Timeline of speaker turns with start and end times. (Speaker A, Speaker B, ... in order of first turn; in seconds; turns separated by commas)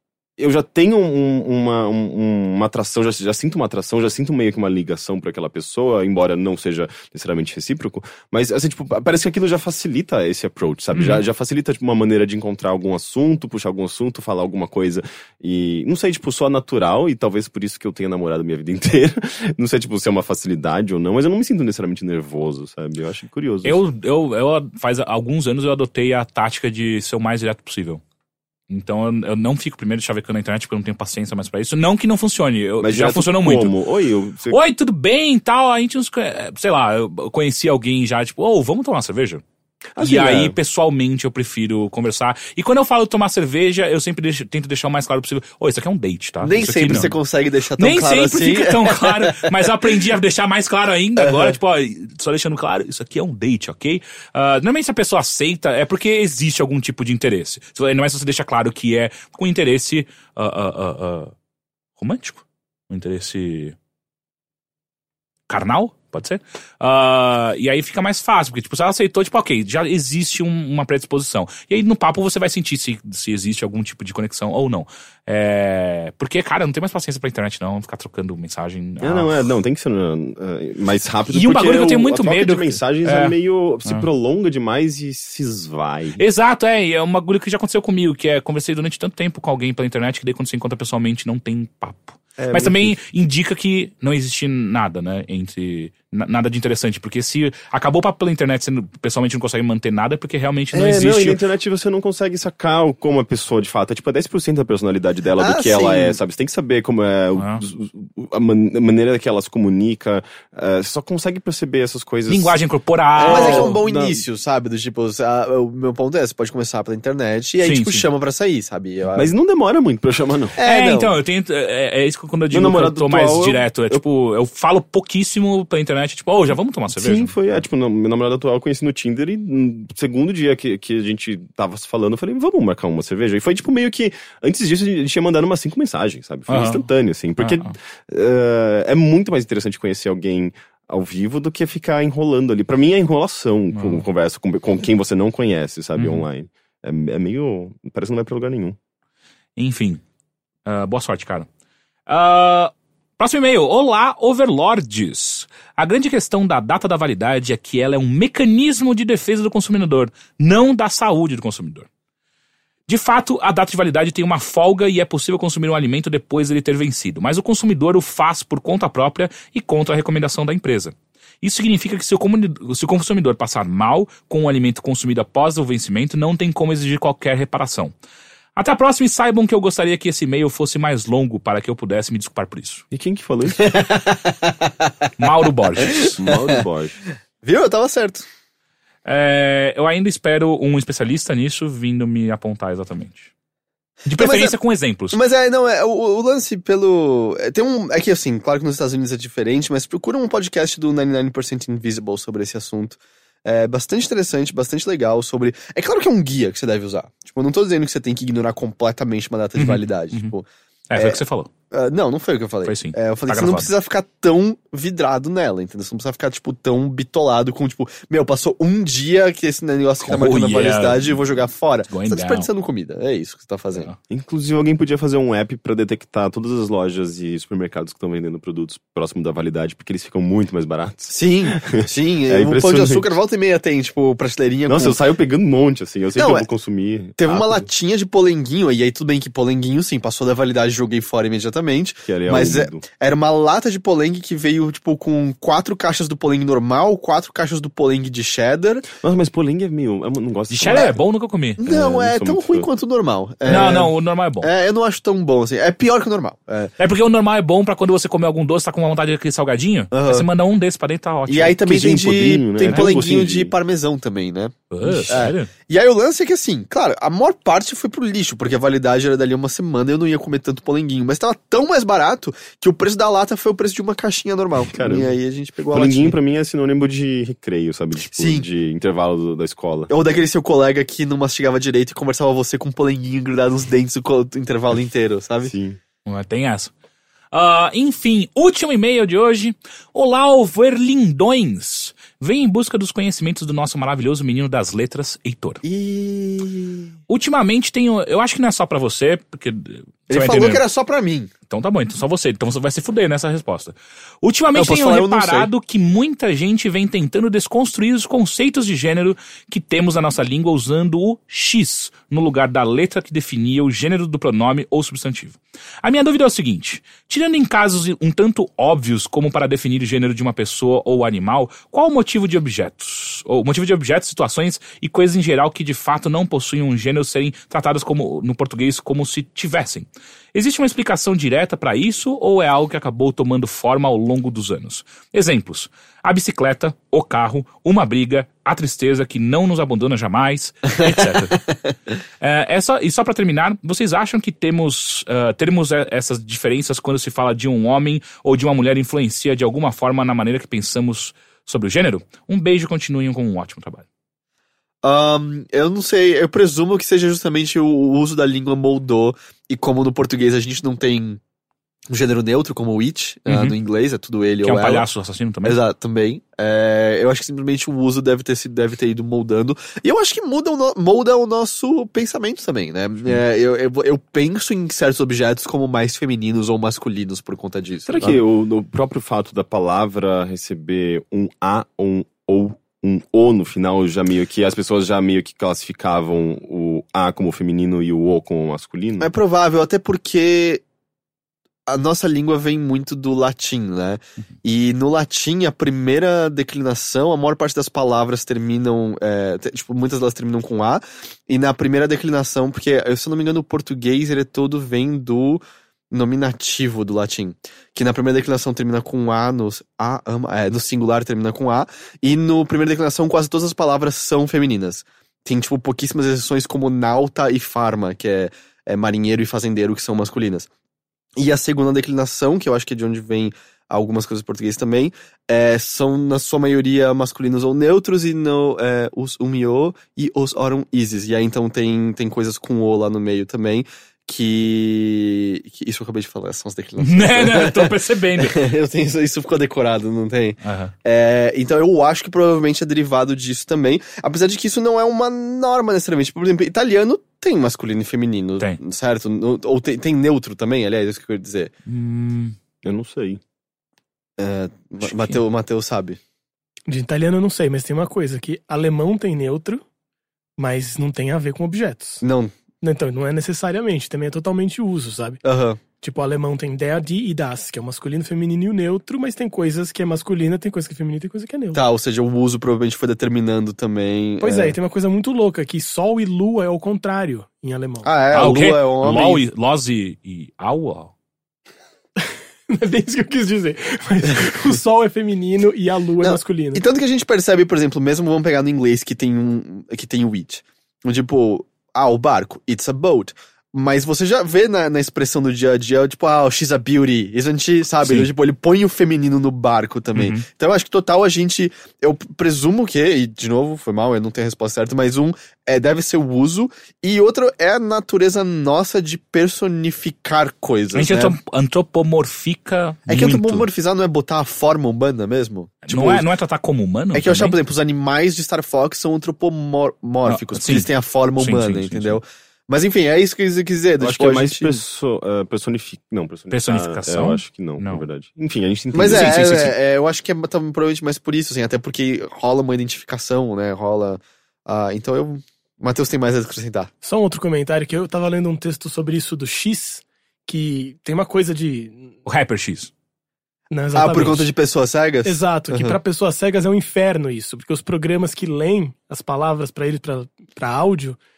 Speaker A: 0.4-23.8, Speaker B: 10.9-11.2, Speaker B: 23.6-28.0, Speaker B: 28.7-33.7, Speaker A: 32.8-34.6, Speaker B: 34.5-39.4, Speaker A: 40.0-40.6, Speaker B: 40.0-47.2, Speaker C: 46.4-49.7, Speaker B: 47.8-61.3, Speaker C: 51.2-51.5, Speaker B: 62.0-63.8, Speaker B: 65.5-79.3, Speaker A: 79.0-86.2, Speaker B: 81.3-84.1, Speaker B: 86.2-101.4, Speaker A: 92.4-93.0, Speaker A: 100.7-112.6, Speaker C: 105.4-106.2, Speaker B: 107.4-107.6, Speaker B: 112.3-113.8, Speaker A: 113.2-114.2, Speaker C: 113.2-119.3, Speaker B: 117.6-118.0, Speaker A: 119.2-120.6, Speaker C: 120.6-121.2, Speaker B: 120.6-127.3, Speaker A: 122.5-124.0, Speaker A: 126.9-148.8, Speaker B: 136.5-136.8, Speaker B: 137.4-137.7, Speaker B: 143.7-144.0, Speaker B: 146.0-146.2, Speaker B: 149.6-150.0, Speaker B: 150.7-151.5, Speaker B: 152.1-161.9, Speaker B: 162.9-177.9, Speaker B: 178.6-182.8, Speaker A: 182.9-183.7, Speaker C: 183.6-184.7, Speaker B: 185.2-186.2, Speaker C: 185.9-186.3, Speaker A: 186.2-187.0, Speaker C: 187.4-188.2, Speaker B: 189.1-193.3, Speaker B: 194.1-195.2, Speaker C: 194.1-194.6, Speaker C: 195.1-211.2, Speaker B: 209.6-210.3, Speaker B: 210.9-211.5, Speaker C: 211.7-223.9, Speaker B: 212.7-213.7, Speaker B: 220.0-221.2, Speaker B: 221.9-222.5, Speaker A: 224.1-233.2, Speaker C: 231.1-235.0, Speaker A: 234.7-237.7, Speaker C: 236.2-236.5, Speaker C: 237.2-248.9, Speaker A: 242.1-242.8, Speaker A: 248.9-251.0, Speaker B: 250.5-251.6, Speaker C: 250.7-251.0, Speaker C: 251.6-256.7, Speaker A: 251.6-252.7, Speaker B: 253.5-254.5, Speaker B: 256.8-261.6, Speaker C: 259.9-260.3, Speaker C: 261.3-276.2, Speaker A: 261.6-263.5, Speaker B: 262.7-262.9, Speaker B: 264.7-265.5, Speaker A: 274.7-275.1, Speaker A: 275.7-279.9, Speaker C: 278.0-278.5, Speaker C: 279.9-285.5, Speaker A: 285.4-285.8, Speaker B: 286.1-286.7, Speaker B: 287.3-295.6, Speaker C: 295.6-296.9, Speaker B: 297.1-300.6, Speaker C: 300.1-301.3, Speaker B: 301.5-341.5, Speaker C: 304.5-305.5, Speaker B: 342.2-353.8, Speaker C: 354.8-361.2, Speaker C: 361.9-364.9, Speaker B: 363.3-363.6, Speaker B: 364.4-365.6, Speaker C: 365.4-378.2, Speaker A: 377.9-389.1, Speaker C: 389.0-390.6, Speaker C: 391.7-420.5, Speaker C: 421.2-451.5, Speaker B: 436.8-438.4, Speaker B: 440.4-440.7, Speaker B: 451.7-452.4, Speaker A: 452.6-453.2, Speaker C: 454.2-456.0, Speaker B: 454.8-455.2, Speaker D: 456.7-459.6, Speaker D: 460.4-462.0, Speaker C: 462.0-462.3, Speaker D: 462.6-465.2, Speaker C: 465.2-465.6, Speaker D: 465.8-471.6, Speaker C: 471.5-474.6, Speaker D: 474.2-477.9, Speaker C: 477.8-479.2, Speaker B: 478.1-480.9, Speaker D: 482.0-486.6, Speaker C: 486.0-511.2, Speaker B: 497.8-498.1, Speaker B: 499.9-500.2, Speaker B: 510.7-513.5, Speaker C: 512.9-516.1, Speaker B: 515.7-517.4, Speaker C: 516.9-524.6, Speaker B: 520.1-522.0, Speaker A: 523.8-529.4, Speaker B: 526.3-527.8, Speaker C: 528.7-536.7, Speaker B: 528.9-529.5, Speaker D: 536.8-541.9, Speaker B: 542.1-542.7, Speaker D: 543.5-544.3, Speaker C: 543.8-545.8, Speaker D: 545.0-551.0